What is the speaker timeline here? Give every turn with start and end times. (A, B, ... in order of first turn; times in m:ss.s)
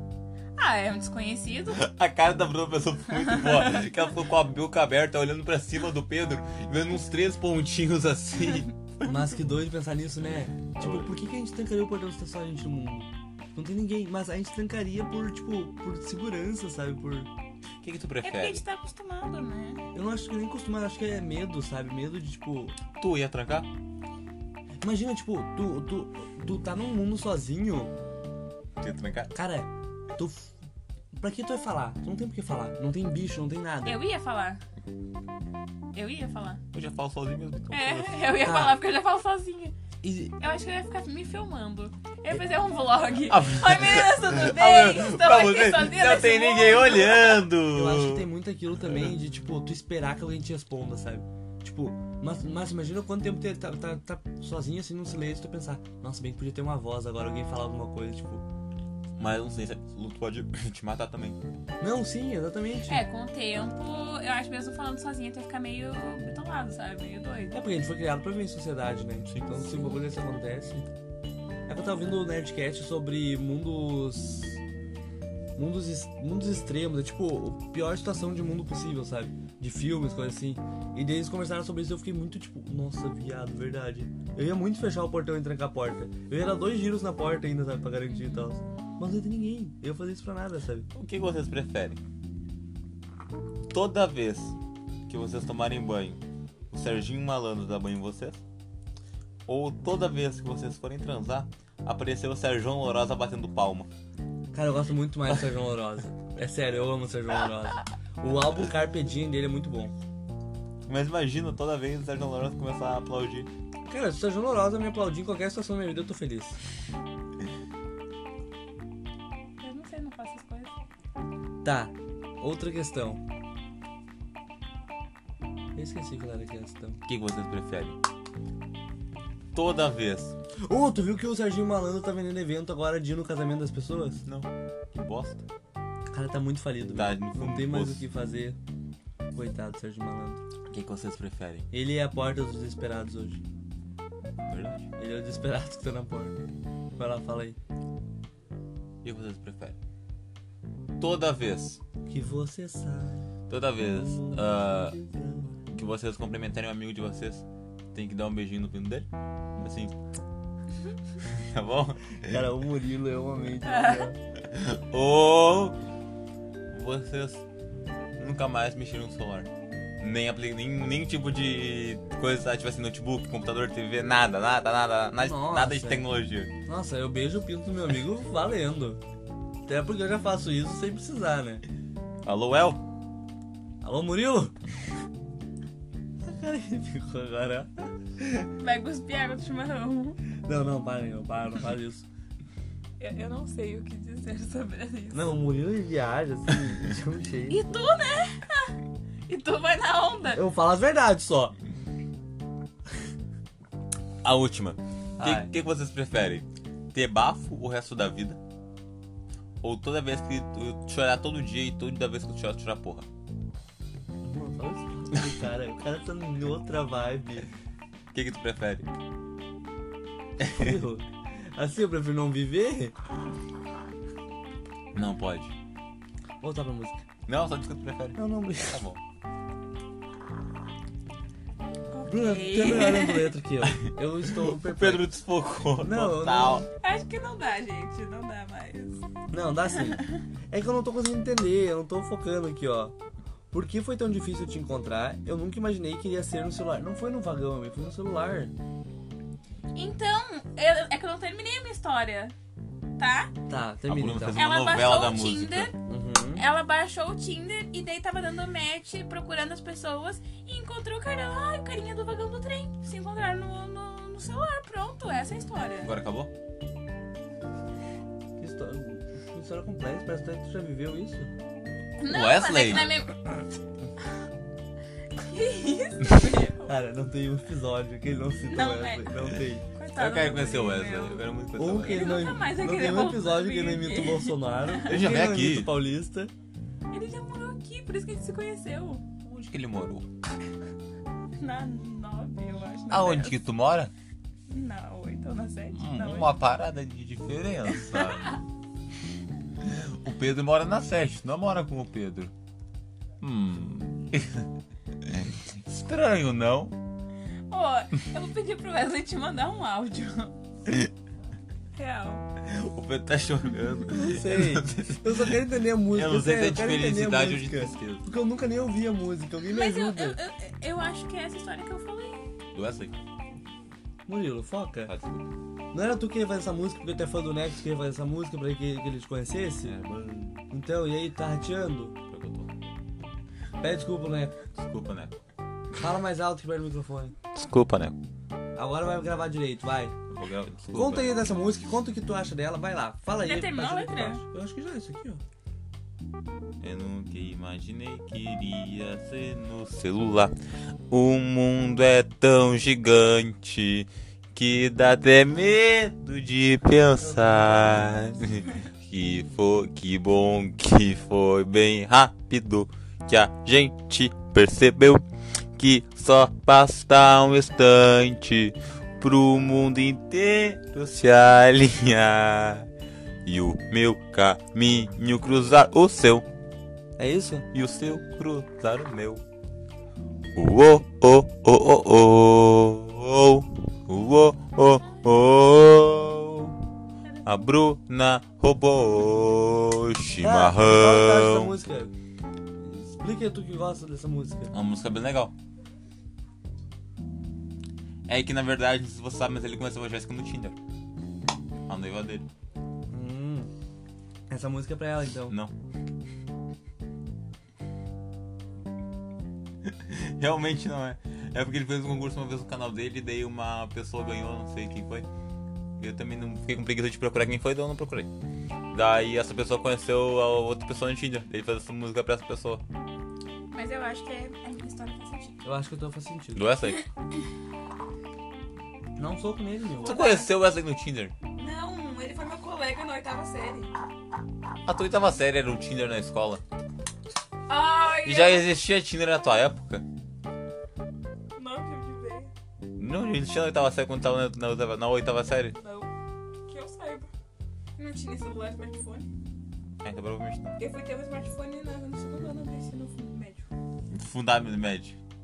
0:00.6-0:01.8 A
0:01.7-0:09.3 B
0:03.2-0:03.8 A
0:09.0-0:17.3 C
0:10.8-0:11.1 B
0:17.8-0:18.6 B
0:18.2-0:19.8 A
0:19.9-0:22.8 C
0:23.0-0:23.7 B
0:24.8-0:27.9 C
0:28.8-0:29.3 B
0:29.3-0:30.5 C
0:31.1-0:34.0 C
0:33.8-0:34.6 A
0:35.9-0:36.6 A
0:36.7-0:38.3 B
0:37.7-0:39.7 A
0:38.4-0:38.8 C
0:40.0-0:40.3 C
0:40.4-0:47.5 A
0:43.3-0:48.3 B
0:47.6-0:58.4 C
0:59.2-1:01.4 B
1:01.8-1:03.0 C
1:02.8-1:07.5 A
1:07.5-1:10.9 C
1:09.6-1:10.0 A
1:11.7-1:14.6 C
1:15.5-1:30.9 C
1:28.1-1:28.5 A
1:30.9-1:32.0 B
1:33.7-1:34.6 B
1:35.1-1:36.2 B
1:36.7-1:38.4 B
1:39.4-1:43.9 B
1:44.5-1:49.9 C
1:50.9-1:53.5 B
1:53.9-1:56.6 C
1:59.6-2:00.7 A
2:01.6-2:03.2 C
2:05.7-2:07.0 C
2:07.1-2:08.0 B
2:09.5-2:10.3 B
2:10.6-2:14.2 C
2:14.2-2:15.4 B
2:16.1-2:18.6 C
2:16.9-2:18.1 B
2:19.3-2:20.4 C
2:20.7-2:21.7 B
2:21.7-2:23.4 C
2:24.5-2:24.9 B
2:25.0-2:26.4 C
2:27.0-2:27.6 C
2:29.0-2:29.8 B
2:31.0-2:31.8 B
2:32.1-2:33.3 C
2:33.5-2:34.9 B
2:33.8-2:35.5 C
2:35.7-2:39.9 B
2:41.2-2:42.5 B
2:42.3-2:44.2 C
2:43.6-2:44.1 A
2:44.5-2:45.8 B
2:46.7-2:47.4 B
2:48.2-2:49.5 B
2:50.0-2:56.5 B
2:55.2-2:56.1 C
2:56.6-2:59.0 C
2:59.7-3:01.6 C
3:02.2-3:02.8 B
3:03.8-3:04.6 C
3:06.2-3:08.4 C
3:08.6-3:10.2 A
3:10.4-3:12.1 C
3:13.0-3:15.4 A
3:15.1-3:17.6 C
3:17.5-3:18.7 A
3:19.3-3:20.4 A
3:20.3-3:21.6 C
3:24.2-3:28.4 B
3:25.2-3:25.5 C
3:29.6-3:33.1 B
3:34.2-3:37.5 C
3:38.1-3:38.9 B
3:40.4-3:40.8 B
3:40.4-3:42.9 C
3:44.9-3:45.5 B
3:46.4-3:47.0 C
3:47.3-3:49.0 B
3:48.2-3:48.8 C
3:51.9-3:53.4 A
3:52.0-3:55.1 C
3:53.6-3:56.7 B
3:55.8-3:56.7 C
3:56.8-3:58.9 A
3:59.3-4:02.9 C
3:59.7-4:00.2 A
4:03.5-4:08.5 C
4:09.7-4:12.3 A
4:13.0-4:13.3 A
4:13.5-4:14.4 C
4:13.9-4:15.7 B
4:14.3-4:15.8 A
4:15.8-4:16.4 C
4:16.3-4:25.9 A
4:25.8-4:26.3 B
4:28.4-4:31.3 C
4:32.0-4:33.2 A
4:32.1-4:32.9 B
4:35.2-4:36.7 A
4:36.7-4:39.6 C
4:38.4-4:45.2 A
4:39.9-4:42.3 B
4:41.6-4:46.3 C
4:44.8-4:45.8 B
4:46.9-4:49.1 A
4:49.2-4:50.1 B
4:51.4-4:53.4 A
4:52.9-4:53.9 B
4:54.5-4:56.3 A
4:55.7-4:58.3 B
4:57.7-4:58.4 A
4:59.6-5:02.3 B
5:03.2-5:04.4 B
5:05.0-5:06.8 B
5:07.5-5:10.4 A
5:11.8-5:12.2 A
5:12.4-5:18.0 B
5:13.9-5:20.2 C
5:19.4-5:22.2 A
5:22.5-5:22.9 B
5:24.1-5:24.9 C
5:24.8-5:25.3 B
5:25.7-5:29.7 C
5:29.6-5:30.4 B
5:30.5-5:32.0 C
5:32.1-5:32.5 B
5:33.6-5:34.4 C
5:34.6-5:35.2 B
5:35.7-5:37.2 C
5:37.3-5:38.0 B
5:38.6-5:40.0 C
5:40.1-5:41.3 B
5:40.7-5:45.2 C
5:43.2-5:44.2 A
5:46.6-5:50.3 B
5:50.9-6:05.0 B
5:57.0-5:58.2 C
6:05.6-6:12.7 B
6:13.2-6:16.2 B
6:17.0-6:17.5 C
6:17.5-6:19.2 B
6:20.3-6:26.6 B
6:27.2-6:31.6 B
6:30.2-6:31.9 C
6:32.8-6:34.5 C
6:34.5-6:35.3 B
6:38.1-6:40.6 B
6:41.7-6:42.2 B
6:42.9-6:43.5 C
6:44.3-6:45.4 C
6:49.6-6:55.1 B
6:55.8-6:58.1 B
6:58.7-7:02.6 B
7:03.5-7:05.4 A
7:05.4-7:06.4 C
7:06.3-7:06.8 B
7:09.0-7:10.0 C
7:09.8-7:10.3 A
7:09.8-7:11.1 B
7:11.3-7:13.7 A
7:14.7-7:16.4 B
7:17.5-7:18.5 A
7:18.0-7:19.8 B
7:21.4-7:22.3 A
7:22.8-7:25.6 B
7:25.5-7:25.9 A
7:26.5-7:27.1 A
7:27.8-7:29.1 A
7:29.8-7:30.6 B
7:30.6-7:33.5 A
7:33.9-7:35.0 B